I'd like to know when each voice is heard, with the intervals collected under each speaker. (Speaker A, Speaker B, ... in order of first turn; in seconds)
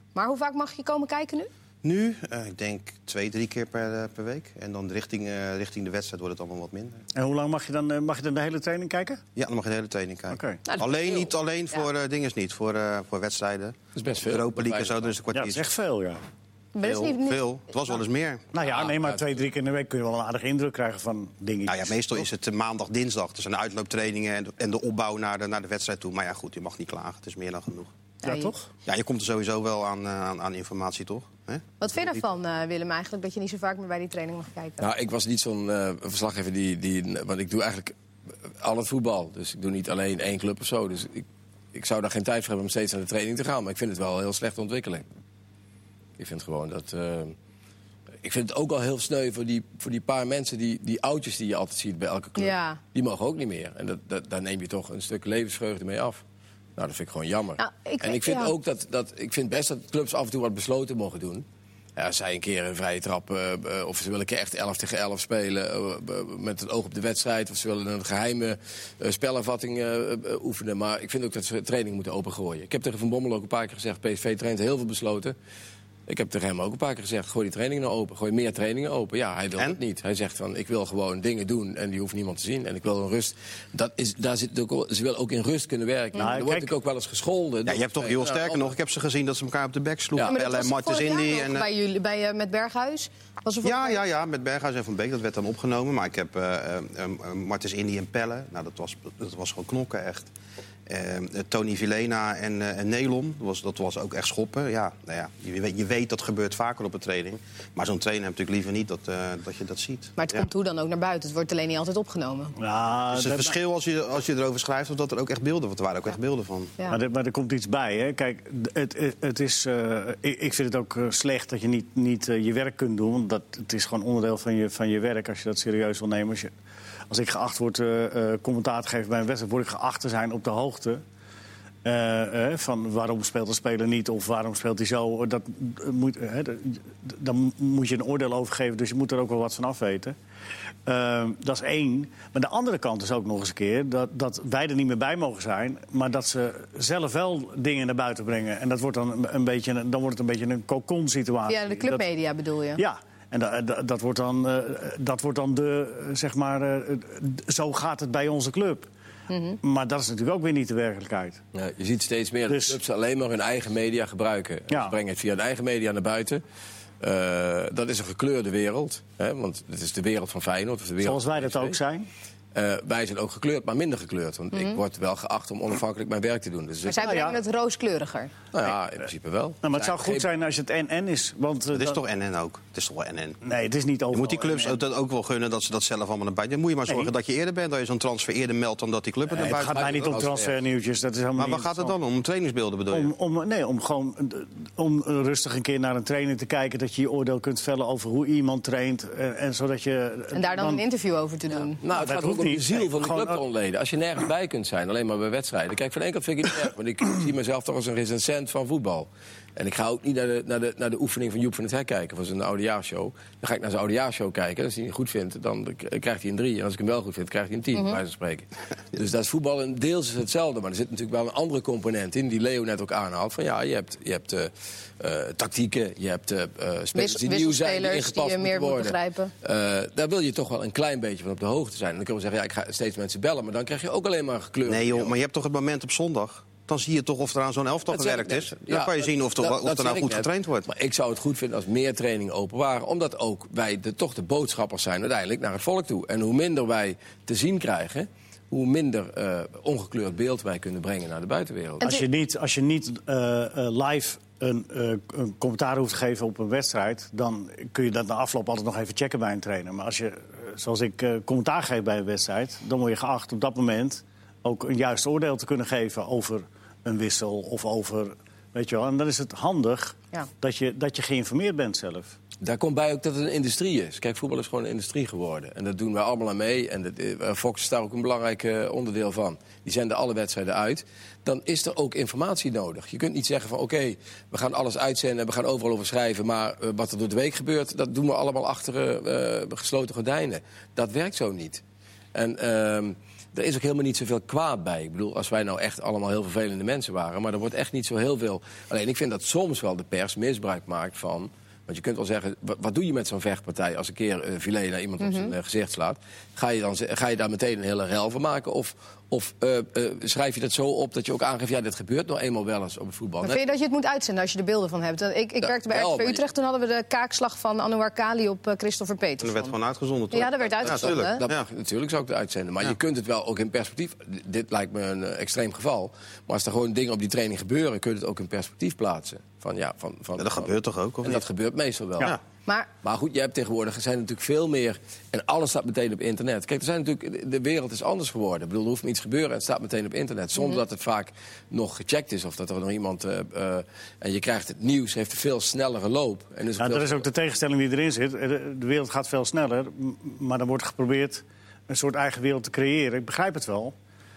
Speaker A: 0.1-1.5, 10.7-11.2, 16.7-17.4, 28.2-28.5, 31.8-34.9, 52.4-52.8, 57.6-58.5, 90.2-94.0, 110.2-112.5, 151.5-152.8, 159.3-159.6, 176.8-178.3, 200.3-201.8, 226.9-229.3, 305.0-305.3, 313.2-319.5, 320.1-321.2, 340.4-340.6
Speaker B: 1.8-7.0, 9.3-15.7, 16.8-18.5, 21.7-27.9, 28.9-32.2, 87.6-91.7, 93.6-100.3, 100.9-110.4, 113.1-116.7, 181.7-183.4, 184.1-190.2, 191.3-193.1, 234.7-240.7, 319.2-321.4, 330.2-331.2
Speaker C: 7.1-9.2, 10.3-10.6, 15.3-16.2, 18.5-22.0, 28.2-28.7, 86.2-86.7, 112.6-113.5, 116.9-126.5, 127.1-131.0, 131.8-140.1, 140.8-152.0, 152.8-158.9, 159.6-161.4, 162.5-162.8, 164.7-164.9, 171.0-172.1, 177.0-177.4, 179.6-182.0, 183.4-184.8, 189.3-191.9, 192.9-200.8, 201.9-203.4, 251.8-272.1, 346.6-353.7
Speaker D: 13.9-15.1, 18.6-19.2, 34.8-37.9, 38.5-45.0, 46.2-47.3, 48.2-56.2, 56.8-61.4, 62.0-75.3, 76.1-88.6, 161.5-166.4, 167.0-171.8, 172.5-177.2, 178.5-180.3, 189.3-190.5, 201.8-235.1, 237.9-251.8, 272.4-291.6, 292.1-313.4, 315.4-316.2, 320.6-332.1, 332.8-347.1